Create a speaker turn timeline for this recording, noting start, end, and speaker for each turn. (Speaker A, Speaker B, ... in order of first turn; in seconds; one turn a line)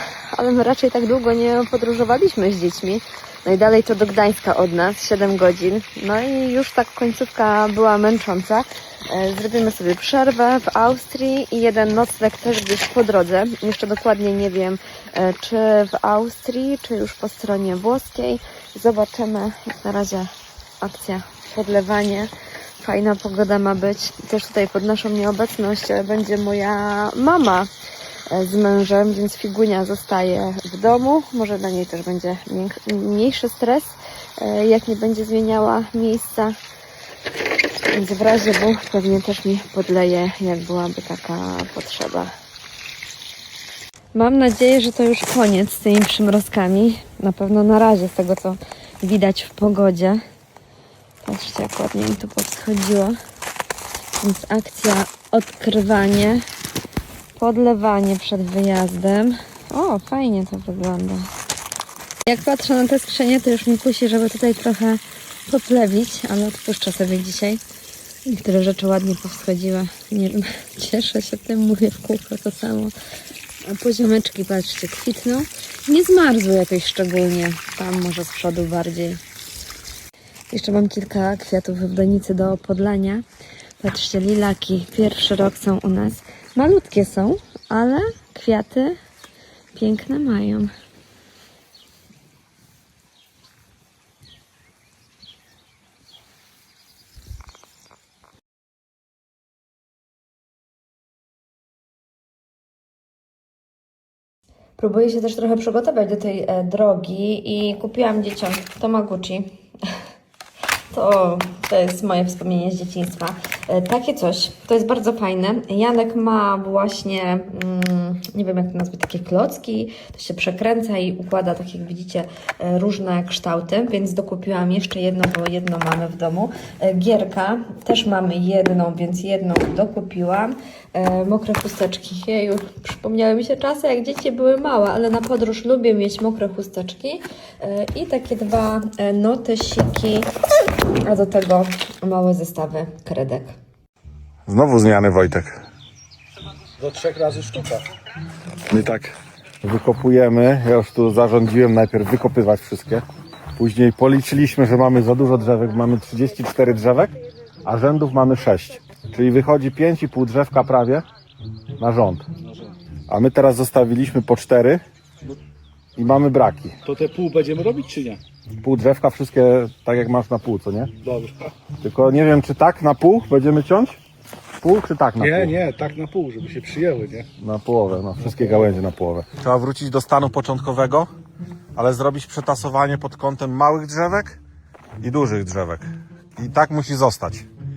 Speaker A: 0.3-20.3
Speaker A: 20.8-27.7
Speaker A: 28.3-36.6
Speaker A: 37.9-42.3
Speaker A: 44.1-50.2
Speaker A: 51.2-53.2
Speaker A: 54.2-56.4
Speaker A: 57.4-61.3
Speaker A: 62.2-67.6
Speaker A: 68.2-72.9
Speaker A: 73.6-79.2
Speaker A: 80.5-83.2
Speaker A: 83.8-89.0
Speaker A: 89.7-90.7
Speaker A: 104.8-109.5
Speaker A: 110.9-140.3
Speaker A: 141.0-143.5
Speaker B: 144.5-145.6
Speaker C: 146.8-147.8
Speaker B: 148.7-153.0
Speaker B: 153.6-161.1
Speaker B: 161.8-162.2
Speaker B: 163.1-164.8
Speaker B: 166.0-166.8
Speaker C: 166.8-168.2
Speaker B: 168.6-170.9
Speaker C: 171.0-171.5
Speaker B: 171.8-174.0
Speaker B: 174.6-175.6
Speaker C: 175.2-177.3
Speaker B: 177.4-181.1
Speaker B: 181.7-184.4
Speaker B: 185.0-187.5